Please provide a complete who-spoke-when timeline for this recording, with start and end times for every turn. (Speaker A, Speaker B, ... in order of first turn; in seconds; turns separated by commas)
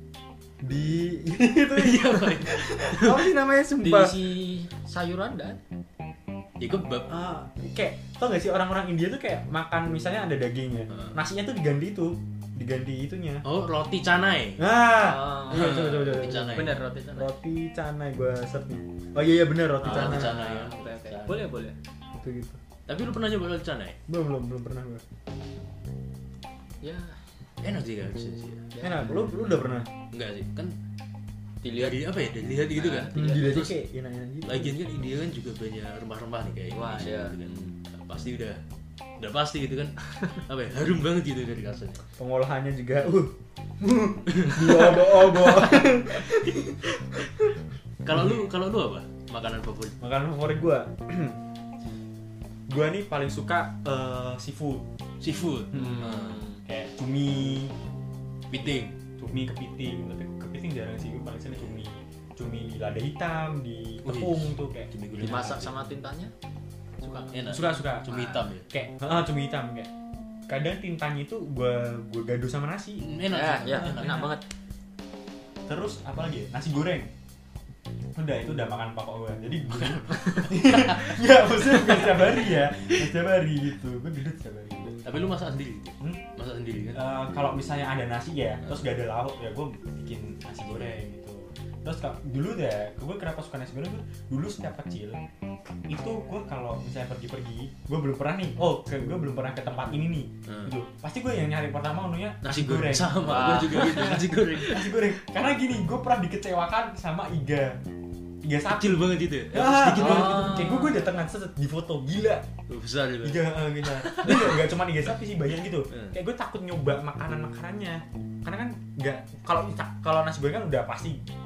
Speaker A: 0.6-4.1, Speaker B: 1.7-3.4, Speaker C: 3.8-5.6, Speaker B: 6.6-7.1, Speaker A: 7.1-13.4, Speaker B: 10.9-11.2, Speaker B: 13.4-14.7, Speaker A: 14.6-20.4, Speaker C: 14.9-17.3, Speaker B: 15.5-16.8, Speaker B: 19.8-21.5, Speaker C: 19.8-21.8, Speaker A: 22.2-22.6, Speaker B: 22.9-24.0, Speaker A: 24.1-25.0, Speaker C: 26.8-27.2, Speaker B: 27.6-28.7, Speaker C: 28.7-29.2, Speaker A: 28.8-29.9, Speaker B: 30.1-30.8, Speaker C: 31.6-32.0, Speaker B: 31.8-33.8, Speaker C: 32.7-33.5, Speaker A: 33.1-34.8, Speaker B: 34.5-38.6, Speaker C: 36.7-37.7, Speaker B: 39.2-42.0, Speaker A: 42.1-47.5, Speaker B: 44.3-45.6, Speaker B: 48.0-50.0, Speaker A: 50.0-51.4, Speaker A: 52.7-54.9, Speaker B: 55.2-56.4, Speaker A: 55.7-56.1, Speaker C: 55.8-56.6, Speaker A: 56.6-57.8, Speaker B: 58.5-59.0, Speaker A: 59.2-64.9, Speaker B: 64.0-65.8, Speaker C: 65.2-66.3, Speaker C: 67.0-67.4, Speaker B: 67.3-68.7, Speaker A: 67.5-69.9, Speaker C: 68.1-68.4, Speaker A: 70.5-73.1, Speaker B: 73.0-74.3, Speaker C: 73.3-74.4, Speaker A: 75.7-77.1, Speaker A: 78.2-85.0, Speaker B: 85.0-87.0, Speaker A: 86.9-95.2, Speaker A: 95.9-107.8, Speaker B: 100.5-100.7, Speaker B: 102.4-105.2, Speaker C: 103.2-104.2, Speaker A: 108.4-112.5, Speaker B: 108.7-110.8, Speaker C: 110.0-111.1, Speaker B: 112.7-114.7, Speaker A: 113.2-121.2